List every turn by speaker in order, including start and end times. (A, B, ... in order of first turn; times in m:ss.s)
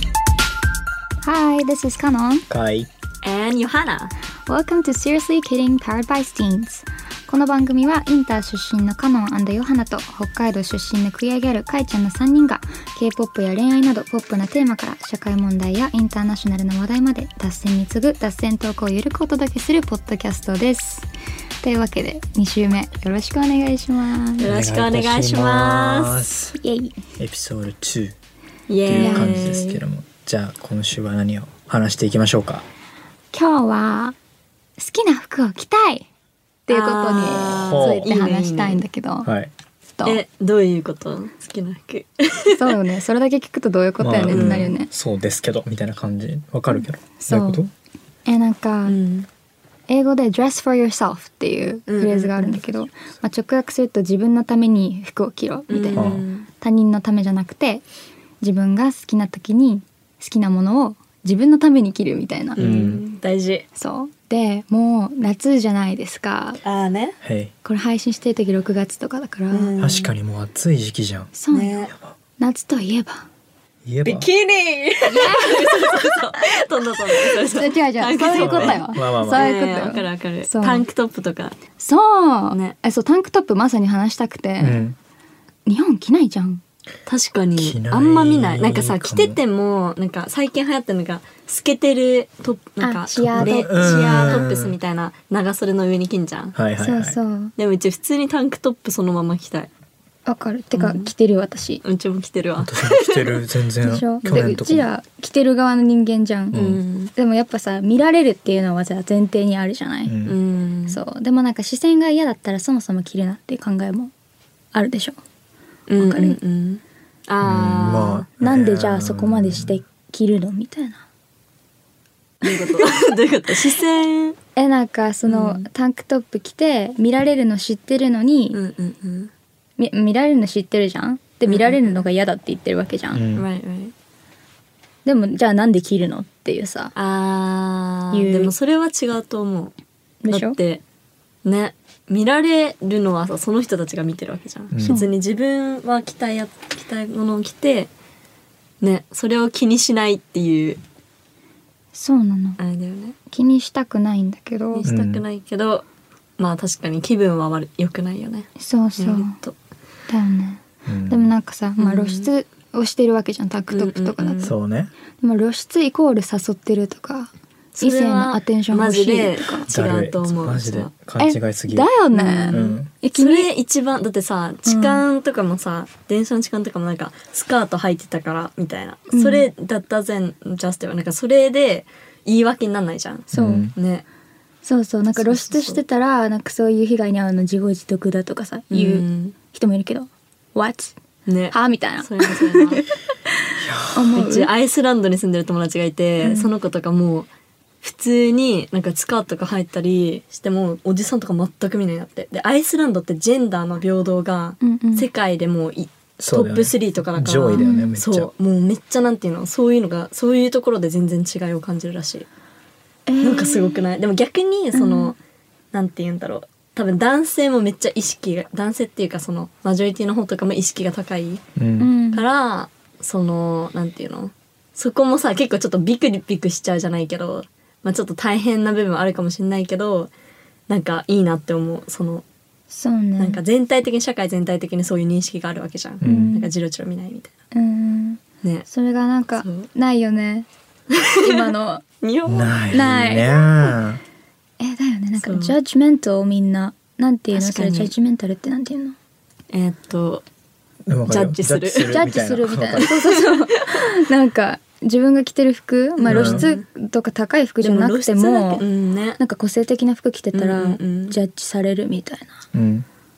0:01.2-0:02.5 A
0:02.5-0:02.9 B
0:03.2-0:04.1 C
0:04.5-0:21.1 A
0:21.6-0:24.5 A
0:24.4-0:26.3 C
0:24.4-0:26.6 B
0:26.5-0:27.0 A
0:27.2-0:28.1 B
0:28.7-0:29.8 C
0:28.8-0:32.6 B
0:29.0-0:29.5 A
0:33.3-0:34.1 A
0:34.8-0:36.0 A
0:36.7-0:39.3 A
0:36.7-0:38.8 C
0:37.4-0:38.1 B
0:39.2-0:39.5 B
0:40.0-0:40.2 A
0:40.0-0:42.8 C
0:42.5-0:44.9 A
0:44.0-0:47.7 B
0:44.3-0:44.7 C
0:46.7-0:47.6 A
0:48.3-0:49.0 A
0:48.8-0:49.3 C
0:49.9-0:57.8 A
0:51.9-0:52.6 C
0:55.7-0:56.5 C
0:55.9-0:56.2 B
0:58.4-1:02.6 A
1:02.6-1:03.6 C
1:02.6-1:03.0 B
1:03.8-1:06.6 A
1:06.6-1:07.2 C
1:07.2-1:07.5 B
1:07.6-1:09.7 A
1:09.5-1:10.1 C
1:09.8-1:11.3 B
1:11.3-1:11.8 A
1:11.5-1:11.9 C
1:12.4-1:13.2 A
1:13.8-1:14.3 B
1:14.0-1:21.5 C
1:15.0-1:16.6 A
1:17.3-1:20.8 A
1:18.3-1:19.5 B
1:21.8-1:24.8 A
1:22.5-1:22.8 C
1:24.6-1:25.0 B
1:25.6-1:26.6 A
1:27.1-1:36.6 C
1:27.6-1:29.4 B
1:32.8-1:34.5 A
1:33.1-1:34.7 B
1:36.5-1:37.2 B
1:36.8-1:37.5 A
1:37.6-1:39.7 C
1:40.2-1:41.8 A
1:40.8-1:41.1 C
1:41.8-1:43.4 C
1:42.6-1:44.9 B
1:43.8-1:46.6 A
1:46.5-1:46.8 B
1:46.5-1:47.1 C
1:47.1-1:50.1 A
1:50.0-1:50.4 B
1:50.2-1:51.0 C
1:50.9-1:54.1 A
1:54.7-1:55.2 A
1:55.9-1:58.3 C
1:56.0-1:56.4 A
1:57.4-1:59.8 B
1:58.4-2:01.0 A
2:02.4-2:02.8 A
2:02.4-2:04.4 C
2:04.6-2:08.6 A
2:05.3-2:05.6 C
2:08.5-2:09.3 C
2:09.8-2:13.2 A
2:11.4-2:12.0 C
2:13.1-2:13.4 B
2:13.3-2:13.9 C
2:15.0-2:16.9 A
2:16.9-2:19.7 C
2:18.1-2:18.5 A
2:20.2-2:20.6 A
2:20.3-2:20.8 C
2:21.4-2:27.9 C
2:24.7-2:25.0 B
2:24.8-2:25.1 A
2:28.8-2:30.8 C
2:31.9-2:32.6 A
2:32.6-2:33.2 C
2:33.3-2:34.9 A
2:34.7-2:35.8 C
2:34.8-2:35.2 B
2:36.4-2:39.5 C
2:38.6-2:39.4 A
2:40.1-2:44.5 A
2:40.8-2:41.3 B
2:41.8-2:42.3 C
2:43.7-2:44.5 C
2:44.4-2:44.9 B
2:45.2-2:49.7 A
2:47.8-2:50.9 C
2:49.7-2:51.9 B
2:51.2-2:53.5 A
2:52.1-3:04.0 C
2:52.5-2:52.9 B
2:54.6-2:55.0 A
2:59.1-2:59.5 A
3:03.3-3:03.7 A
3:03.3-3:03.7 B
3:04.6-3:10.9 A
3:05.1-3:05.8 C
3:08.7-3:09.3 C
3:11.2-3:12.8 C
3:11.5-3:12.9 A
3:13.6-3:14.2 B
3:13.9-3:14.5 A
3:14.2-3:17.3 C
3:16.2-3:16.5 A
3:17.8-3:32.3 C
3:24.6-3:25.1 A
3:26.2-3:28.3 B
3:27.5-3:27.9 A
3:33.1-3:33.8 A
3:33.2-3:35.2 C
3:34.7-3:35.1 A
3:35.7-3:41.4 C
3:41.6-3:41.9 B
3:41.8-3:42.3 A
3:42.1-3:50.1 C
3:50.7-3:52.2 C
3:52.7-3:53.4 A
3:53.2-3:57.3 C
3:56.0-3:56.3 B
3:56.0-3:56.5 A
3:57.5-4:00.5 A
3:59.4-3:59.7 C
4:01.0-4:02.7 C
4:01.2-4:01.8 A
4:02.3-4:04.0 B
4:02.7-4:03.8 A
4:04.6-4:08.9 A
4:05.2-4:05.6 C
4:07.3-4:07.9 C
4:09.5-4:10.2 C
4:10.9-4:13.0 B
4:11.1-4:12.0 C
4:11.8-4:18.6 A
4:12.8-4:13.7 C
4:16.0-4:16.6 C
4:16.1-4:16.5 B
4:17.6-4:19.2 C
4:19.2-4:22.4 A
4:20.3-4:21.2 C
4:22.5-4:22.8 B